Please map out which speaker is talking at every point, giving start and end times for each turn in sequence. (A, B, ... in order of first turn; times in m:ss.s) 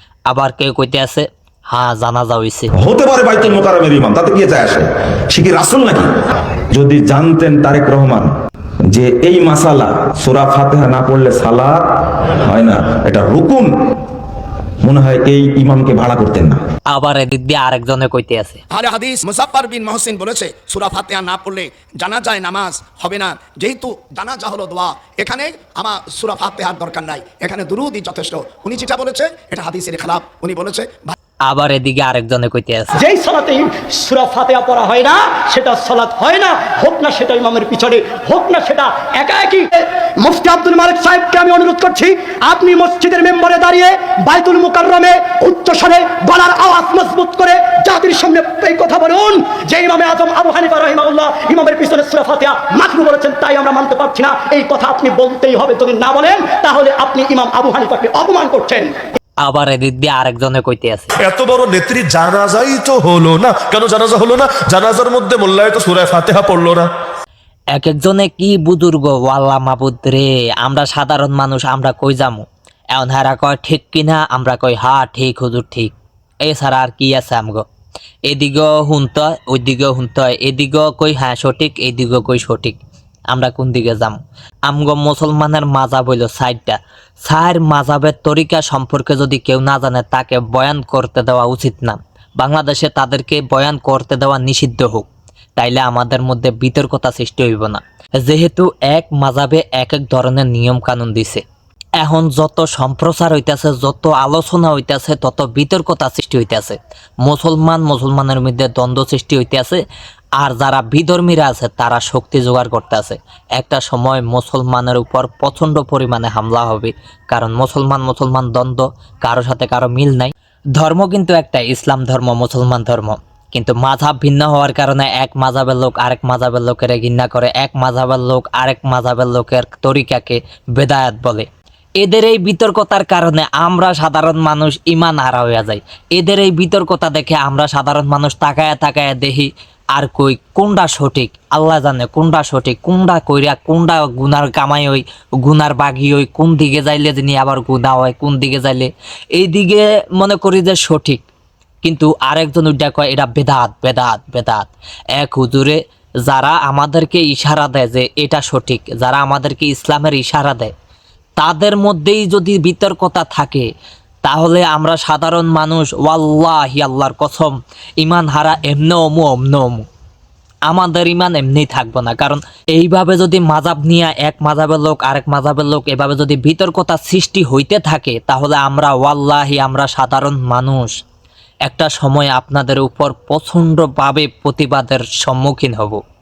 0:00.3-0:02.7 A
0:02.8-0:06.1 B
0:06.7-0:08.3 B
0:08.9-0:11.9 B
0:12.4-0:13.7 B
0:14.8-0:16.6 B
0:16.9-0:18.6 A
0:18.7-0:31.2 C
0:31.5-0:33.0 A
0:33.0-0:59.0 D
0:59.4-1:01.1 A
1:01.2-1:06.9 E
1:07.7-1:15.9 A
1:16.4-1:17.6 A
1:18.3-1:41.4 A
1:42.0-1:49.8 A
1:50.4-2:11.5 A
2:12.0-2:31.2 A
2:31.8-2:40.7 A
2:41.4-2:43.7 A
2:44.2-2:49.9 A
2:50.7-3:01.0 A
3:01.7-3:06.0 A